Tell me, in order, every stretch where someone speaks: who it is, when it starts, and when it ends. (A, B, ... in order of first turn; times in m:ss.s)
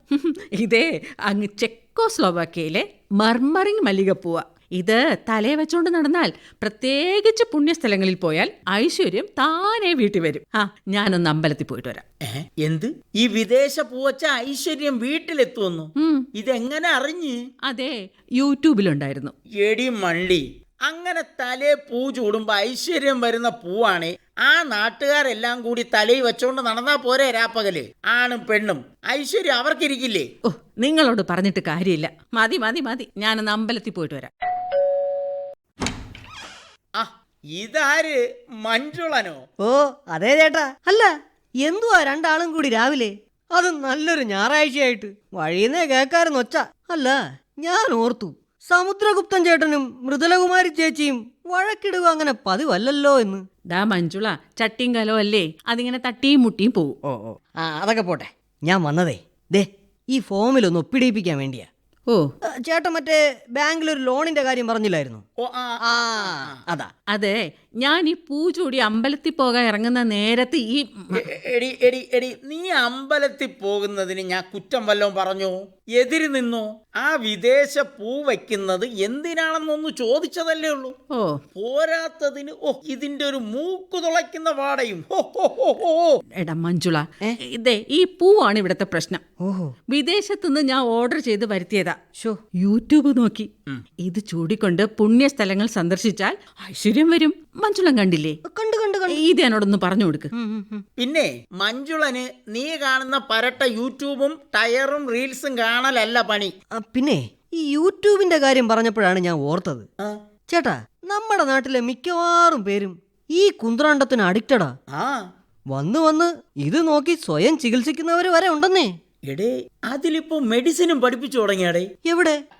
0:00.1-0:12.0 A
0:12.3-0:17.4 B
0:16.0-0:16.2 A
0:17.7-0:19.3 A
0:19.6-0:30.3 B
0:30.5-0:34.3 A
0:37.0-0:39.4 B
0:39.6-0:41.1 C
0:41.6-0:53.4 C
0:53.7-0:56.9 A
0:57.1-1:01.7 C
1:02.6-1:05.2 C
1:05.4-1:06.6 B
1:05.9-1:06.9 C
1:07.1-1:11.2 A
1:11.1-1:20.9 B
1:21.6-1:26.1 B
1:26.4-1:29.2 A
1:29.4-1:29.7 C
1:29.9-1:32.0 A
1:32.6-1:33.5 A
1:34.0-1:38.4 A
1:38.4-1:39.2 C
1:39.1-1:40.3 A
1:40.3-1:40.8 C
1:41.0-1:46.5 B
1:46.7-1:49.8 C
1:50.5-1:54.7 C
1:55.7-1:58.9 C
1:59.3-2:01.9 B
2:02.0-2:02.4 C